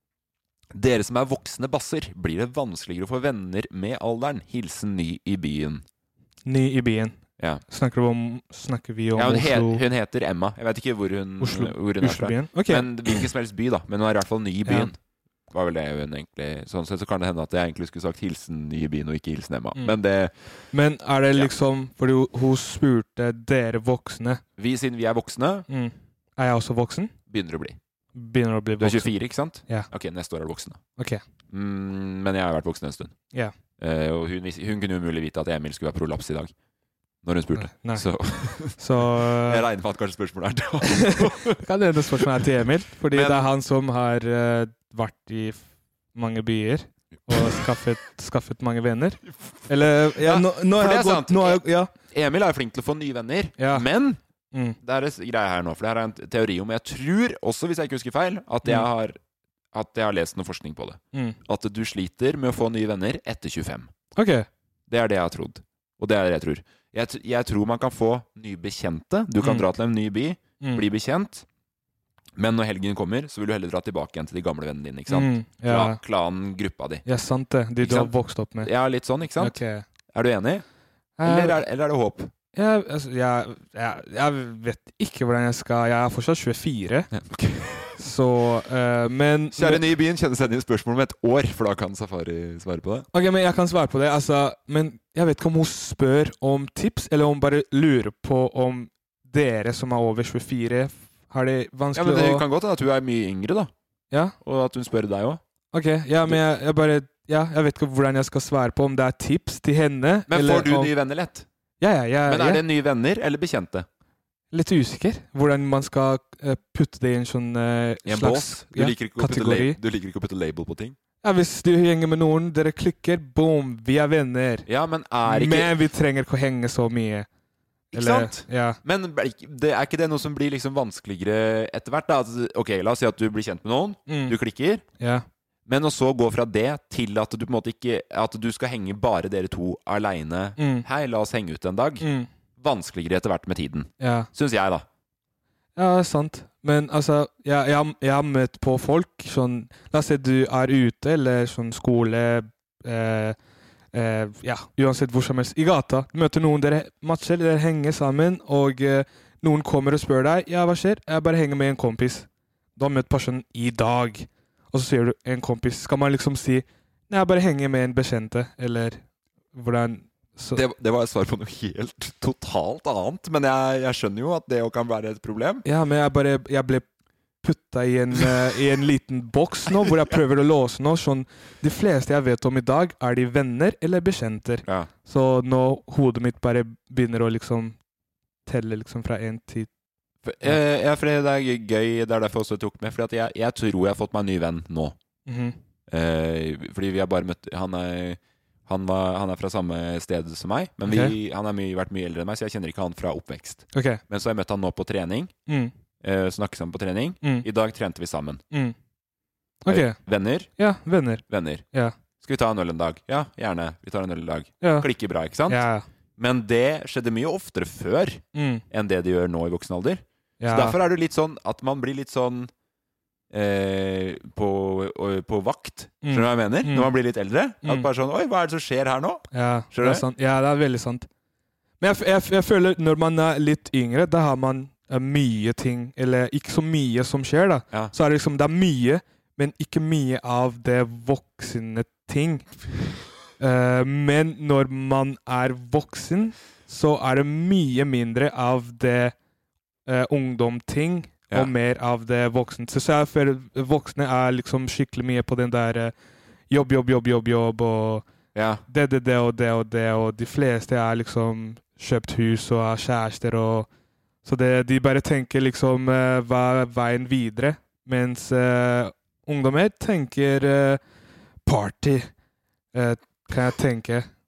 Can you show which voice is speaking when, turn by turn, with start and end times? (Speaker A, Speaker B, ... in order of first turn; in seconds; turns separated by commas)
Speaker A: 0.7-5.8, Speaker B: 6.4-9.8, Speaker A: 9.1-15.0, Speaker B: 11.4-13.2, Speaker A: 15.5-20.3, Speaker B: 20.7-24.4, Speaker A: 24.6-25.6, Speaker B: 25.7-27.1, Speaker A: 27.3-27.8, Speaker B: 28.1-29.1, Speaker A: 28.8-30.8, Speaker B: 31.0-31.2, Speaker A: 31.5-33.1, Speaker A: 33.8-36.5, Speaker A: 37.2-41.6, Speaker B: 37.5-38.0, Speaker B: 38.6-39.6, Speaker B: 40.9-51.9, Speaker A: 43.1-43.5, Speaker A: 47.3-47.6, Speaker A: 50.1-54.2, Speaker B: 53.6-53.9, Speaker A: 54.8-59.2, Speaker A: 59.7-63.9, Speaker B: 61.1-61.4, Speaker B: 64.2-64.5, Speaker A: 64.9-71.4, Speaker B: 69.4-69.7, Speaker A: 72.4-77.0, Speaker B: 75.1-76.0, Speaker B: 77.0-78.7, Speaker A: 77.8-79.6, Speaker B: 79.4-79.8, Speaker A: 80.1-80.6, Speaker B: 81.2-81.6, Speaker A: 81.2-82.3, Speaker B: 82.5-87.1, Speaker A: 87.1-88.0, Speaker B: 88.0-89.8, Speaker A: 89.5-93.1, Speaker B: 93.1-102.4, Speaker A: 101.9-103.7, Speaker A: 104.4-105.4, Speaker B: 105.7-110.9, Speaker A: 110.3-111.5, Speaker B: 111.8-112.6, Speaker A: 112.2-113.9, Speaker B: 114.5-119.8, Speaker A: 118.0-121.0, Speaker B: 121.2-124.7, Speaker A: 124.7-125.7, Speaker B: 125.2-127.3, Speaker A: 127.9-134.8, Speaker B: 127.9-128.8, Speaker B: 134.1-134.3, Speaker B: 135.0-135.2, Speaker A: 135.7-142.1, Speaker B: 140.6-140.8, Speaker B: 142.0-142.3, Speaker A: 142.6-144.8, Speaker B: 144.0-144.3, Speaker B: 145.8-153.3, Speaker B: 153.9-162.2, Speaker B: 162.8-169.0, Speaker B: 169.5-170.6, Speaker A: 170.5-175.6, Speaker B: 175.6-176.9, Speaker B: 177.4-187.8, Speaker A: 179.8-180.1, Speaker A: 184.6-184.9, Speaker B: 188.4-189.7, Speaker A: 190.2-194.9, Speaker B: 195.2-195.6, Speaker A: 195.9-205.3, Speaker B: 200.9-201.1, Speaker B: 203.7-204.0, Speaker B: 205.5-205.7, Speaker A: 206.0-208.4, Speaker B: 209.6-210.0, Speaker A: 209.7-210.5, Speaker B: 210.6-211.9, Speaker A: 211.3-211.6, Speaker A: 212.2-215.6, Speaker B: 214.6-214.9, Speaker B: 215.5-215.8, Speaker A: 216.2-222.5, Speaker B: 218.3-218.6, Speaker B: 220.4-220.8, Speaker A: 223.3-230.0, Speaker B: 226.0-226.9, Speaker B: 229.3-231.1, Speaker B: 231.8-242.5, Speaker B: 243.4-249.1, Speaker B: 249.9-255.9, Speaker B: 256.5-258.1, Speaker A: 258.4-258.6, Speaker B: 258.7-263.7, Speaker B: 264.2-270.8, Speaker B: 271.4-272.1, Speaker B: 272.7-274.1